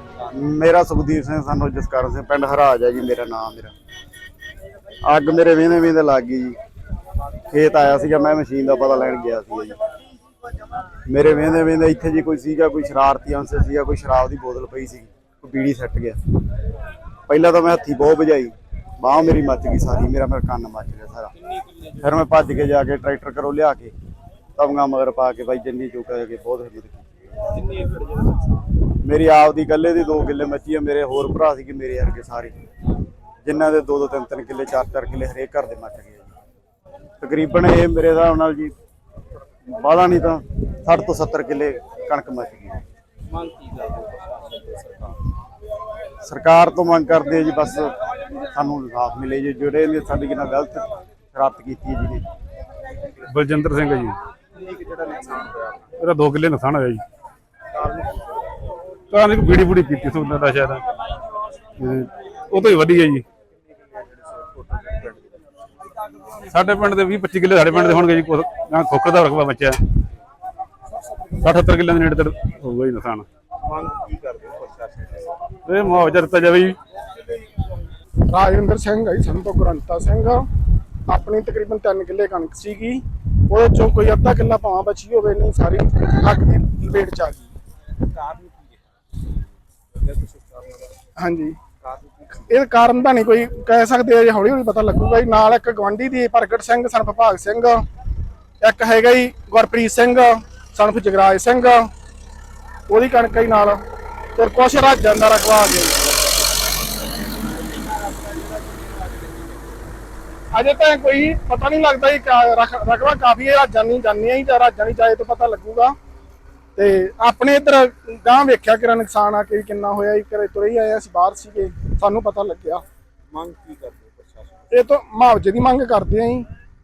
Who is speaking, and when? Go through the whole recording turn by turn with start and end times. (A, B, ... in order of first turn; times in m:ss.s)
0:00.3-0:03.7 A
0:05.0-0:06.6 A
0:07.5-0:09.8 A
0:11.0-0:16.2 A
0:17.3-0:21.3 A
0:22.0-0:23.9 A
0:24.6-0:27.0 A
0:27.6-0:28.4 B
0:29.0-0:32.6 A
0:33.4-0:36.3 A
0:37.2-0:38.7 A
0:39.7-0:42.8 A
0:43.3-0:45.1 B
0:46.2-0:47.9 A
0:48.5-0:52.2 A
0:53.3-0:54.2 C
0:54.6-0:55.8 B
0:56.0-0:57.0 C
0:57.7-0:58.3 B
0:59.1-1:00.8 C
1:01.8-1:03.2 C
1:04.2-1:05.2 B
1:06.5-1:09.8 C
1:11.4-1:13.2 C
1:13.6-1:15.3 B
1:15.6-1:16.8 C
1:18.3-1:20.4 D
1:21.1-1:27.4 D
1:28.0-1:28.7 B
1:30.0-1:30.9 B
1:31.2-1:31.6 D
1:31.8-1:32.4 B
1:32.4-1:37.8 D
1:38.6-1:41.9 D
1:42.9-1:43.8 D
1:44.4-1:46.0 D
1:48.3-1:48.8 B
1:50.5-1:55.9 D
1:56.8-2:02.8 D
2:03.3-2:04.7 B
2:04.7-2:06.4 D